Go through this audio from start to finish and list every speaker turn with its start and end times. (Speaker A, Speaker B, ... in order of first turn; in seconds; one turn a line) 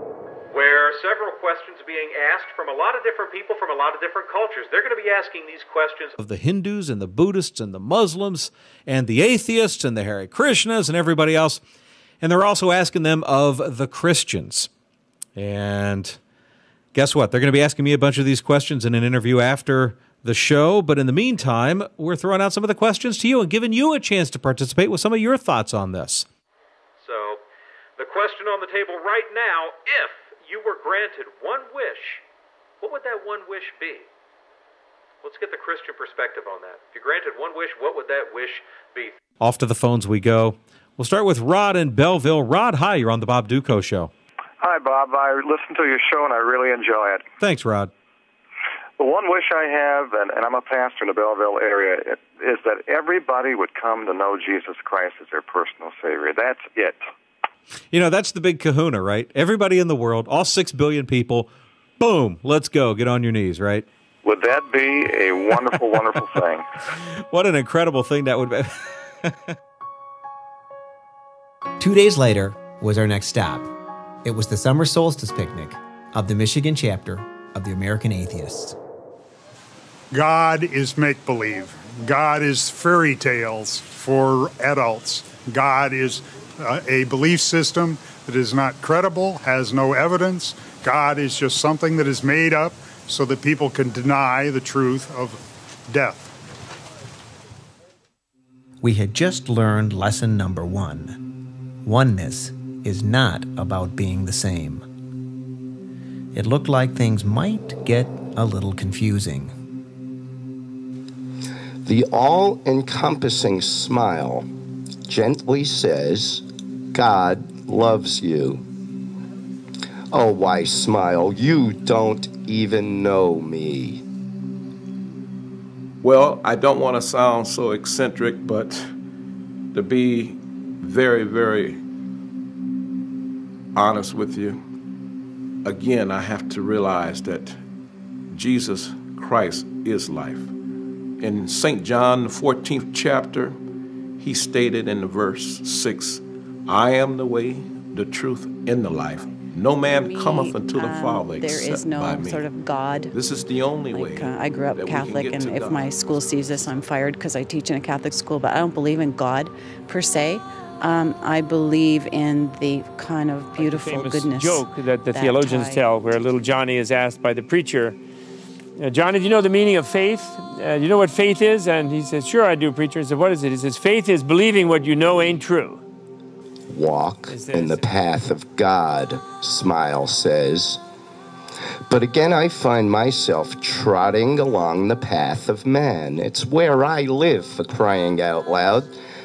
Speaker A: 0.5-6.1
Speaker B: 6.2-11.6
Speaker B: 12.2-14.7
Speaker B: 15.4-16.2
Speaker B: 16.9-26.2
Speaker A: 27.0-27.4
Speaker A: 28.0-32.2
Speaker A: 32.8-34.1
Speaker A: 35.2-39.2
Speaker B: 39.4-44.1
Speaker C: 44.6-47.2
Speaker B: 47.4-47.9
Speaker C: 49.0-57.0
Speaker B: 57.9-63.9
Speaker C: 64.2-66.6
Speaker B: 67.2-69.3
Speaker D: 71.8-73.7
Speaker D: 74.2-78.8
Speaker E: 80.1-96.3
Speaker D: 98.8-101.2
Speaker D: 101.8-104.8
Speaker D: 106.3-109.5
Speaker F: 111.8-114.5
Speaker F: 115.1-118.7
Speaker F: 120.1-124.0
Speaker G: 126.0-128.9
Speaker G: 129.7-131.8
Speaker G: 133.7-134.6
Speaker G: 135.6-137.6
Speaker G: 138.3-140.5
Speaker G: 141.2-143.6
Speaker G: 144.2-152.5
Speaker H: 149.8-153.1
Speaker G: 153.1-156.8
Speaker H: 153.9-165.8
Speaker I: 163.6-168.0
Speaker I: 168.8-175.8
Speaker F: 176.7-180.8
Speaker I: 177.3-177.8
Speaker F: 181.9-188.9